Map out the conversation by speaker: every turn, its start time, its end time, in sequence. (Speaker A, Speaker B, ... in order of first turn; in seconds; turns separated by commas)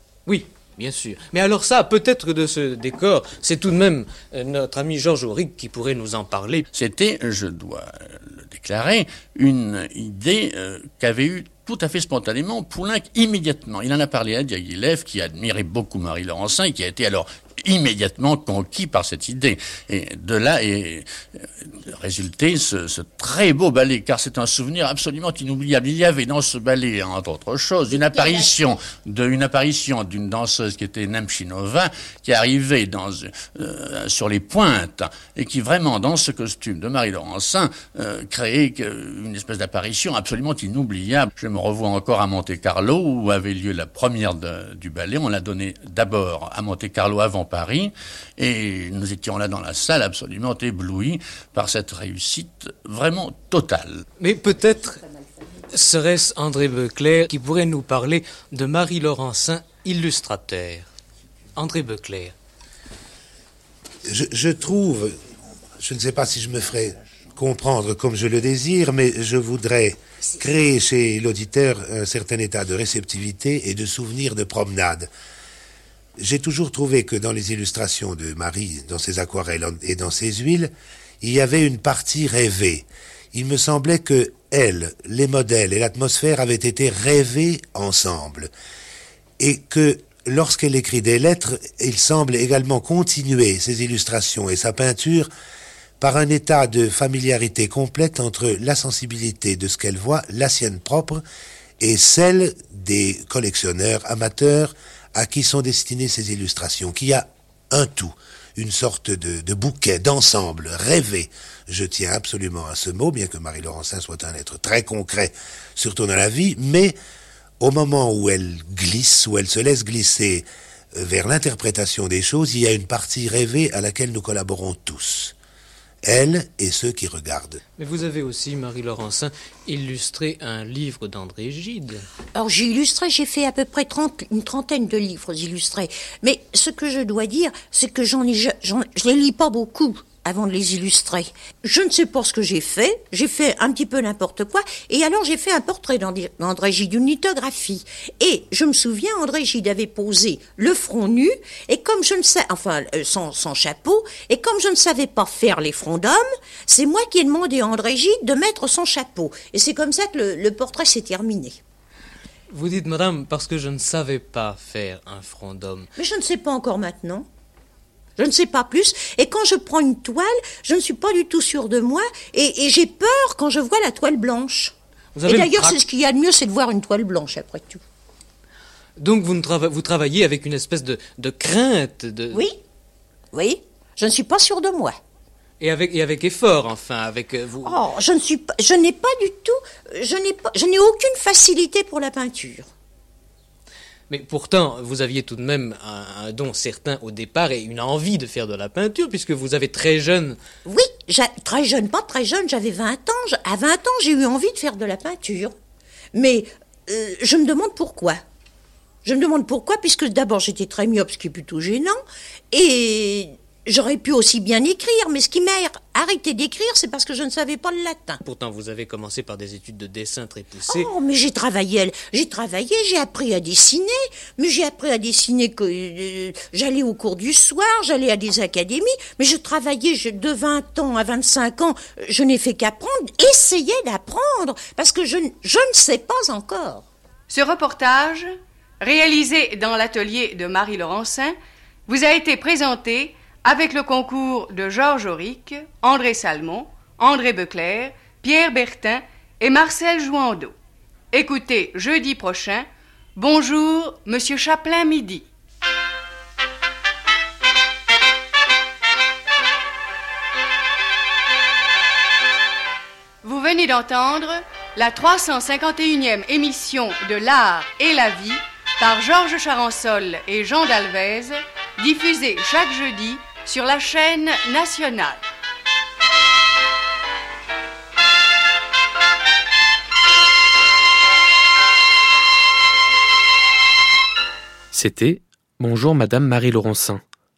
Speaker A: 0.2-6.7, Speaker B: 6.7-54.0, Speaker C: 28.0-28.5, Speaker A: 54.2-55.0, Speaker A: 55.7-60.9, Speaker A: 61.5-62.3, Speaker D: 64.0-65.2, Speaker D: 65.8-75.1, Speaker D: 76.2-88.5, Speaker D: 89.4-95.3, Speaker D: 96.0-101.2, Speaker D: 101.8-116.9, Speaker D: 117.6-125.3, Speaker D: 126.0-127.6, Speaker A: 127.8-132.0, Speaker C: 132.3-161.6, Speaker A: 162.5-165.9, Speaker C: 165.9-167.3, Speaker C: 168.2-174.7, Speaker A: 175.2-175.8, Speaker C: 175.2-177.8, Speaker A: 179.0-182.4, Speaker C: 182.3-182.6, Speaker C: 183.3-185.0, Speaker A: 185.6-187.7, Speaker C: 187.6-192.7, Speaker A: 194.1-200.4, Speaker C: 200.6-205.5, Speaker C: 206.1-208.2, Speaker C: 209.0-218.2, Speaker A: 218.2-220.9, Speaker C: 220.7-236.8, Speaker E: 237.3-241.3, Speaker E: 241.9-250.5, Speaker E: 251.1-255.3, Speaker E: 263.2-275.2, Speaker F: 284.7-287.0